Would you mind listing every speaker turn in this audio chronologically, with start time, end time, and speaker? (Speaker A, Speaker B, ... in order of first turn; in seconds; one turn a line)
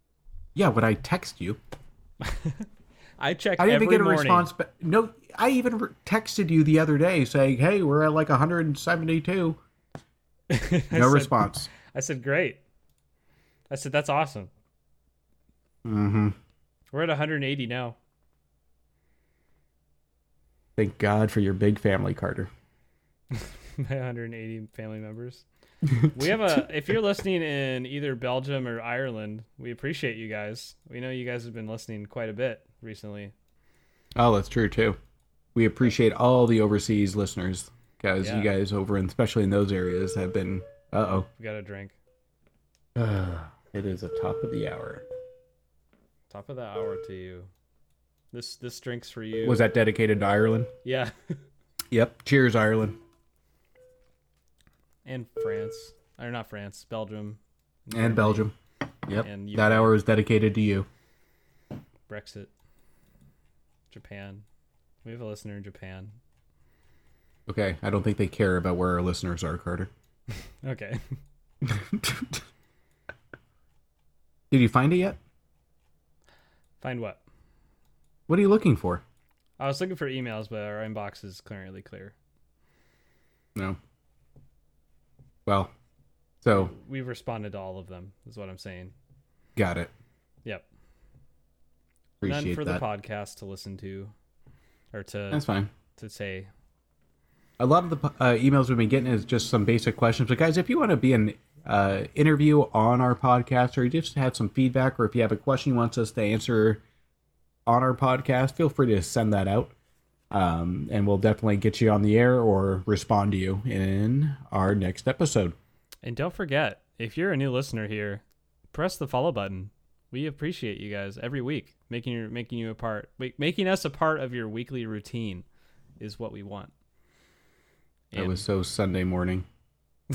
Speaker A: 0.6-1.6
Speaker B: 2.2-2.6
Speaker B: 3.2-4.5
Speaker A: 3.6-9.6
Speaker B: 10.5-12.6
Speaker A: 10.9-11.7
Speaker B: 13.7-14.5
Speaker A: 15.8-16.4
Speaker B: 16.9-18.0
Speaker A: 20.8-22.5
Speaker B: 23.3-25.4
Speaker A: 25.8-26.6
Speaker B: 26.1-33.3
Speaker A: 34.1-35.0
Speaker A: 35.5-41.3
Speaker B: 38.2-38.5
Speaker B: 41.4-42.0
Speaker A: 43.0-45.0
Speaker B: 46.3-47.5
Speaker B: 48.3-49.6
Speaker A: 49.4-50.7
Speaker B: 50.8-51.4
Speaker A: 51.9-53.0
Speaker B: 55.0-58.5
Speaker A: 57.9-58.5
Speaker A: 59.0-60.9
Speaker B: 59.1-60.0
Speaker B: 62.1-62.5
Speaker B: 63.9-64.4
Speaker B: 65.0-66.2
Speaker A: 67.5-69.9
Speaker B: 70.6-71.0
Speaker A: 71.6-72.4
Speaker A: 74.5-75.2
Speaker B: 76.8-77.2
Speaker A: 78.3-79.0
Speaker B: 79.6-82.1
Speaker A: 85.5-85.7
Speaker A: 86.4-86.7
Speaker B: 86.5-88.9
Speaker A: 89.5-89.9
Speaker A: 92.2-92.8
Speaker B: 92.2-94.1
Speaker B: 94.9-95.4
Speaker A: 95.3-95.7
Speaker B: 95.9-96.5
Speaker A: 97.6-106.8
Speaker A: 107.7-109.7
Speaker A: 110.3-115.5
Speaker B: 116.0-125.4
Speaker B: 126.0-126.7
Speaker B: 128.1-128.4
Speaker A: 128.1-129.4